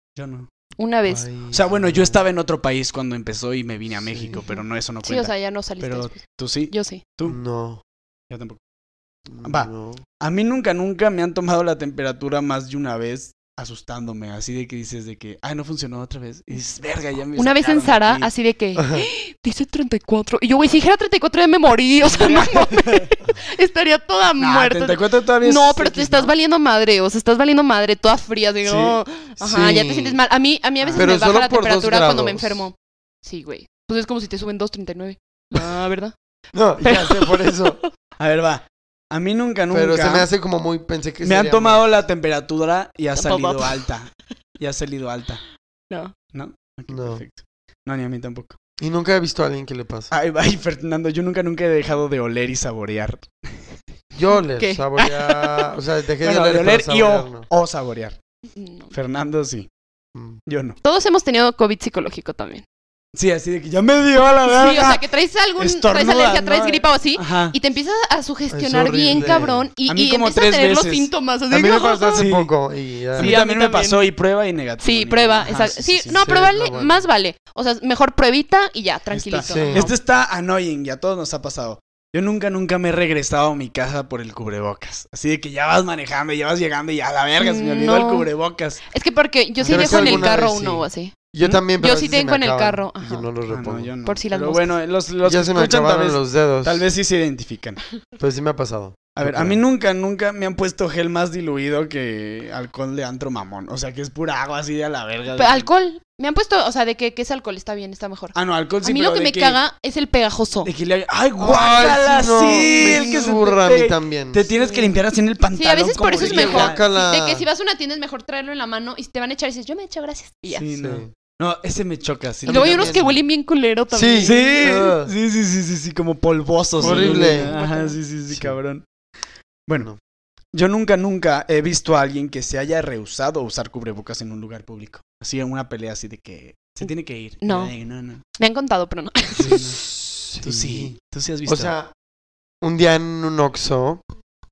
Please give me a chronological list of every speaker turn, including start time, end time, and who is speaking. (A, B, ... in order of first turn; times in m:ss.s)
0:00.2-0:00.5 A
0:00.8-0:01.3 B
0:01.1-0:02.2 C
0:01.5-0:07.4 A
0:04.1-0:04.4 C
0:04.3-0:07.0 B
0:07.3-0:07.8 C
0:08.3-0:08.6 A
0:09.3-0:10.0 C
0:09.4-0:18.3 A
0:17.4-0:36.1 B
0:18.8-0:19.1 C
0:22.0-0:23.1 A
0:24.4-0:26.3 A
0:28.7-0:29.0 A
0:29.4-0:30.2 C
0:30.8-0:31.1 A
0:30.9-0:32.7 C
0:36.5-0:37.8 C
0:36.8-0:37.9 B
0:38.2-0:40.3 A
0:39.7-0:41.8 C
0:41.2-0:45.4 A
0:43.2-0:43.9 B
0:46.3-0:48.6 A
0:46.9-0:47.2 C
0:48.8-0:50.1 C
0:50.1-0:53.6 A
0:54.1-0:57.5 C
0:54.5-0:55.7 B
0:56.2-0:58.2 A
0:58.6-0:58.9 B
0:58.9-0:59.7 A
1:00.2-1:00.4 C
1:00.5-1:00.8 A
1:00.8-1:02.6 B
1:03.2-1:05.0 A
1:04.4-1:12.3 B
1:05.6-1:07.6 A
1:08.5-1:09.7 C
1:09.1-1:11.1 A
1:11.5-1:13.3 C
1:12.2-1:12.5 A
1:13.2-1:14.1 B
1:13.2-1:16.2 A
1:14.8-1:20.0 B
1:16.1-1:17.0 C
1:19.1-1:28.8 A
1:19.5-1:19.9 C
1:27.4-1:28.3 B
1:28.9-1:31.2 B
1:29.6-1:30.3 A
1:29.7-1:33.9 C
1:31.8-1:33.3 B
1:33.5-1:37.8 A
1:34.1-1:34.7 B
1:35.2-1:36.8 C
1:38.2-1:39.6 C
1:39.2-1:45.7 A
1:45.3-1:50.7 B
1:48.4-1:49.6 A
1:50.6-1:56.8 A
1:51.4-1:54.4 C
1:52.9-1:53.2 B
1:54.6-1:55.0 B
1:55.5-2:00.7 B
1:56.2-1:57.5 C
2:00.5-2:03.2 A
2:00.7-2:01.1 C
2:02.5-2:03.1 C
2:02.5-2:04.5 B
2:03.9-2:05.1 C
2:04.2-2:08.8 A
2:06.8-2:08.0 B
2:06.8-2:07.5 C
2:08.3-2:08.6 C
2:10.5-2:18.2 A
2:17.4-2:17.7 B
2:18.4-2:19.6 B
2:19.4-2:19.8 A
2:19.4-2:21.9 C
2:20.4-2:21.7 A
2:22.6-2:24.0 C